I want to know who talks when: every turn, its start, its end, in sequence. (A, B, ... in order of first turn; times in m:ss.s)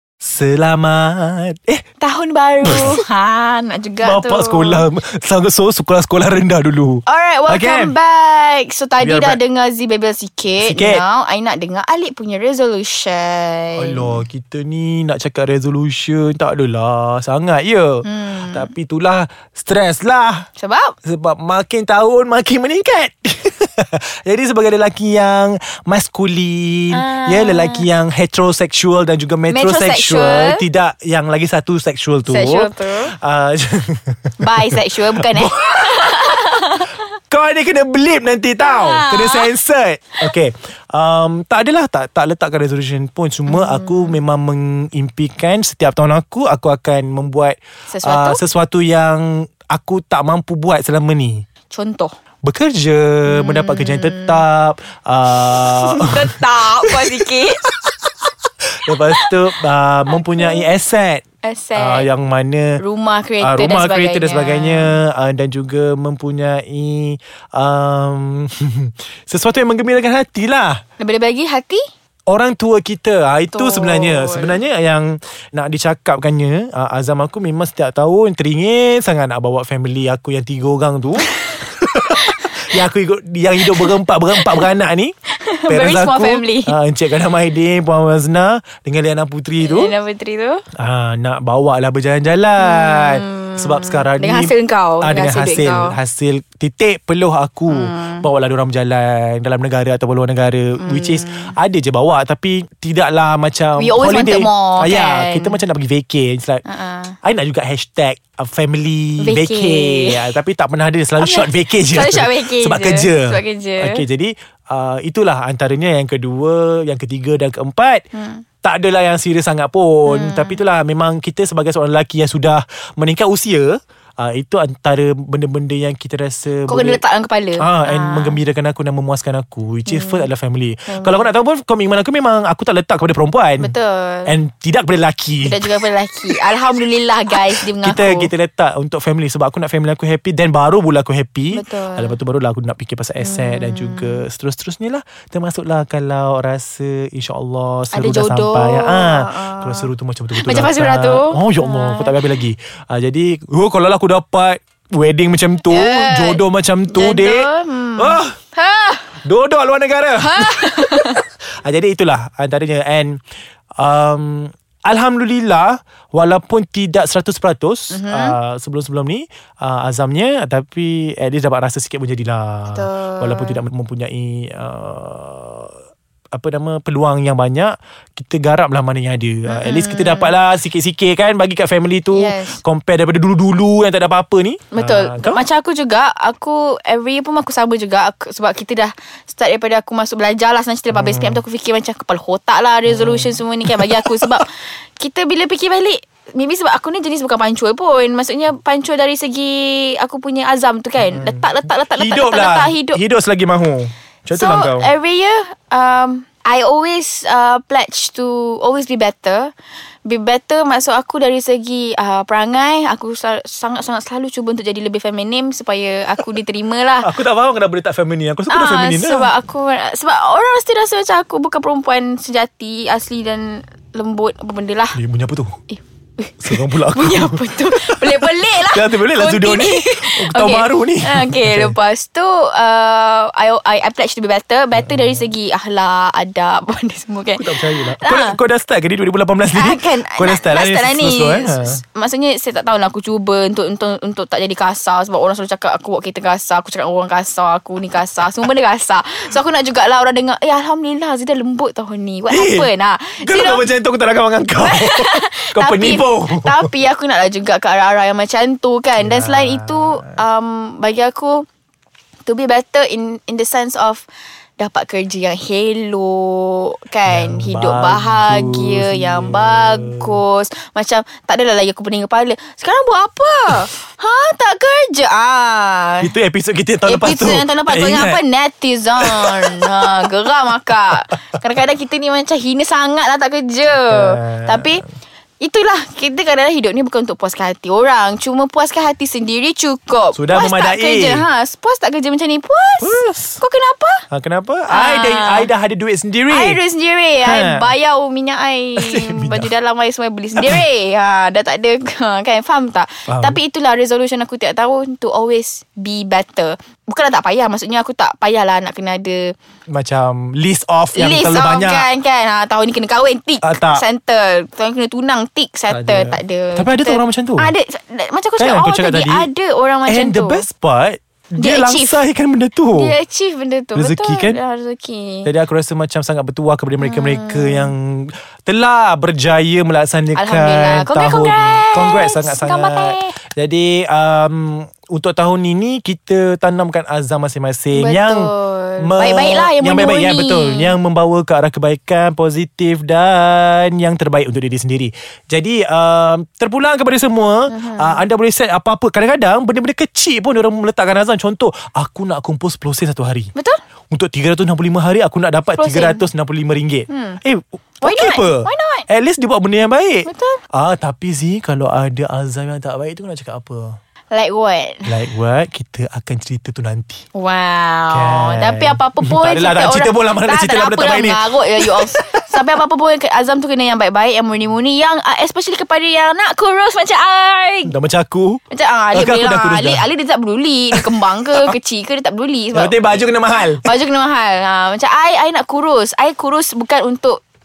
0:00.2-0:01.8 A
0:02.0-0:04.8 B
0:02.6-0:03.0 A
0:04.0-0:07.9 A
0:07.0-0:14.2 B
0:09.0-0:09.4 A
0:10.6-0:11.0 A
0:13.8-0:20.4 A
0:18.0-0:18.7 B
0:20.6-0:20.9 B
0:21.0-0:36.4 A
0:26.9-0:27.9 B
0:29.5-0:30.6 B
0:32.2-0:33.1 B
0:34.4-0:36.9 B
0:37.3-0:51.4 A
0:38.6-0:39.5 B
0:43.5-0:44.2 B
0:47.9-0:48.4 B
0:51.7-0:52.1 B
0:52.4-0:57.9 A
0:53.2-0:54.4 B
0:55.4-0:57.6 B
0:58.8-1:01.2 A
1:00.2-1:00.7 B
1:01.4-1:02.1 B
1:01.8-1:02.8 A
1:02.8-1:04.9 B
1:03.4-1:10.8 A
1:11.0-1:11.8 B
1:12.3-1:25.1 A
1:13.5-1:14.6 B
1:22.0-1:22.8 B
1:23.7-1:24.7 B
1:25.3-1:26.8 B
1:25.7-1:29.9 A
1:29.6-1:30.6 B
1:30.8-1:46.6 A
1:32.6-1:36.0 B
1:37.7-1:38.2 B
1:40.8-1:41.6 B
1:43.8-1:45.6 B
1:46.6-1:47.2 B
1:47.2-1:58.0 A
1:49.2-1:50.3 B
1:51.2-1:54.0 B
1:58.1-1:58.4 B
1:58.6-2:07.0 A
2:00.0-2:00.6 B
2:06.7-2:08.4 B
2:07.6-2:13.7 A
2:09.9-2:10.3 B
2:10.9-2:11.3 B
2:13.6-2:14.3 B
2:14.2-2:16.5 A
2:15.4-2:18.3 B
2:17.5-2:38.4 A
2:21.5-2:22.2 B
2:23.2-2:24.2 B
2:27.9-2:32.2 B
2:35.7-2:39.2 B
2:39.2-2:43.2 A
2:40.2-2:41.2 B
2:43.8-2:55.8 A
2:47.9-2:48.4 B
2:52.7-2:53.6 B
2:56.3-3:05.4 A
2:59.5-3:00.3 B
3:02.1-3:02.6 B
3:04.7-3:23.0 B
3:10.9-3:11.4 A
3:12.9-3:14.4 A
3:21.0-3:24.9 A
3:24.3-3:29.5 B
3:30.0-3:37.1 B
3:37.0-3:39.3 A
3:38.5-3:45.0 B
3:44.9-3:45.6 A
3:45.7-3:58.4 B
3:46.4-3:51.8 A
3:54.8-3:55.2 A
3:57.4-4:01.8 A
3:59.5-4:13.6 B
4:12.3-4:12.7 A
4:13.2-4:16.7 A
4:14.6-4:21.4 B
4:19.0-4:20.2 A
4:22.2-4:24.0 B
4:24.6-4:36.1 B
4:27.1-4:30.2 A
4:36.0-4:38.2 A
4:36.8-4:44.8 B
4:39.0-4:40.1 A
4:43.8-4:44.8 A
4:45.4-4:54.0 B
4:50.1-4:51.2 A
4:52.8-4:53.4 A
4:54.1-4:56.6 A
4:54.7-4:55.5 B
4:56.3-5:09.3 B
4:57.2-4:57.7 A
4:58.8-4:59.5 A
5:00.4-5:00.6 A
5:03.1-5:03.4 A
5:09.7-5:11.9 A
5:10.9-5:20.4 B
5:13.4-5:13.8 A
5:15.7-5:17.5 A
5:18.4-5:19.3 A
5:19.9-5:22.9 A
5:21.4-5:22.0 B
5:22.7-5:25.3 B
5:23.7-5:24.4 A
5:25.2-5:53.3 A
5:26.8-5:27.7 B
5:30.1-5:33.2 B
5:37.7-5:40.7 B
5:47.5-5:48.0 B
5:53.9-6:03.8 A
5:55.6-5:56.0 B
5:56.9-5:57.2 B
5:57.8-5:58.9 B
6:00.0-6:00.4 B
6:04.1-6:05.0 B
6:04.8-6:07.0 A
6:07.1-6:17.7 B
6:07.9-6:12.2 A
6:17.6-6:18.4 A
6:18.5-6:23.0 B
6:18.9-6:19.8 A
6:20.7-6:21.5 A
6:22.5-6:23.6 A
6:23.6-6:27.2 B